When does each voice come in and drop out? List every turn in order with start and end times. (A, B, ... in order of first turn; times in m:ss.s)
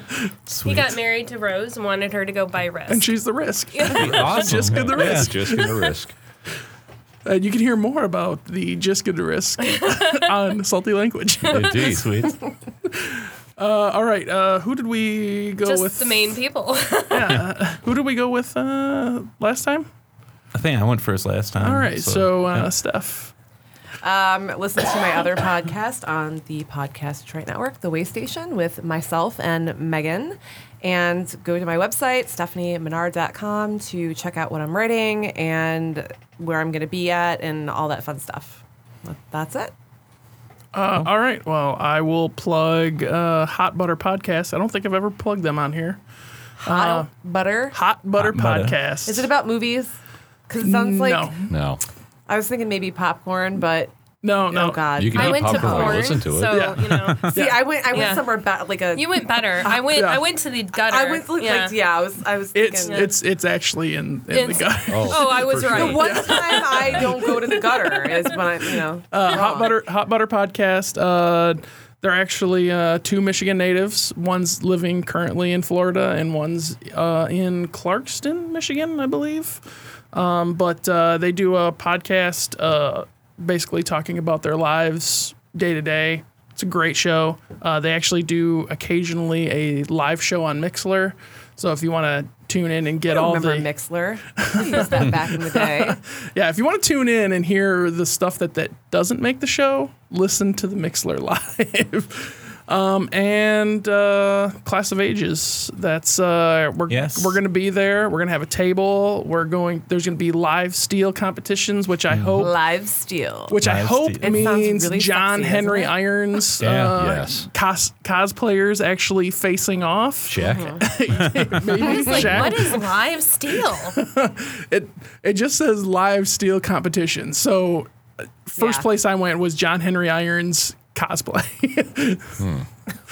0:00.5-0:00.9 A
0:00.6-0:03.2 B
0:02.9-0:05.9 C
0:03.7-0:04.6 B
0:04.0-0:05.4 A
0:04.1-0:06.1 D
0:07.2-0:11.9 C
0:09.7-0:10.3 B
0:11.4-0:12.3 D
0:11.5-0:12.0 B
0:12.9-0:16.4 C
0:15.6-0:17.4 B
0:17.1-0:19.9 C
0:20.5-0:22.7 A
0:21.6-0:23.3 C
0:24.0-0:39.7 E
0:40.7-0:46.0 C
0:46.6-0:47.1 C
0:46.6-0:47.8 E
0:47.7-0:49.3 C
0:48.2-0:48.8 A
0:49.1-0:49.9 E
0:50.5-0:51.3 E
0:50.6-0:51.5 C
0:51.5-0:51.8 D
0:52.3-0:53.9 E
0:54.2-0:54.8 C
0:54.5-0:56.2 E
0:55.0-0:56.8 D
0:55.1-0:57.3 B
0:56.5-0:57.8 C
0:56.9-0:57.2 A
0:57.3-0:59.7 E
0:57.9-0:58.3 B
0:58.9-1:01.7 B
0:59.7-1:00.2 C
1:00.8-1:03.1 E
1:02.5-1:08.2 C
1:02.8-1:03.2 B
1:04.3-1:06.9 B
1:04.9-1:06.0 D
1:05.7-1:09.8 E
1:09.1-1:33.7 C
1:33.1-1:36.0 E
1:34.4-1:52.6 C
1:46.9-1:47.4 A
1:52.3-1:53.6 E
1:53.5-2:02.8 C
1:53.6-1:54.6 A
1:54.2-1:56.0 E
1:56.6-1:56.9 A
1:56.6-1:57.5 D
2:00.2-2:01.0 D
2:00.4-2:00.9 E
2:01.8-2:04.0 B
2:01.9-2:02.3 E
2:02.1-2:02.7 D
2:03.9-2:07.9 C
2:08.5-2:12.4 C
2:08.6-2:08.9 E
2:12.4-2:12.7 D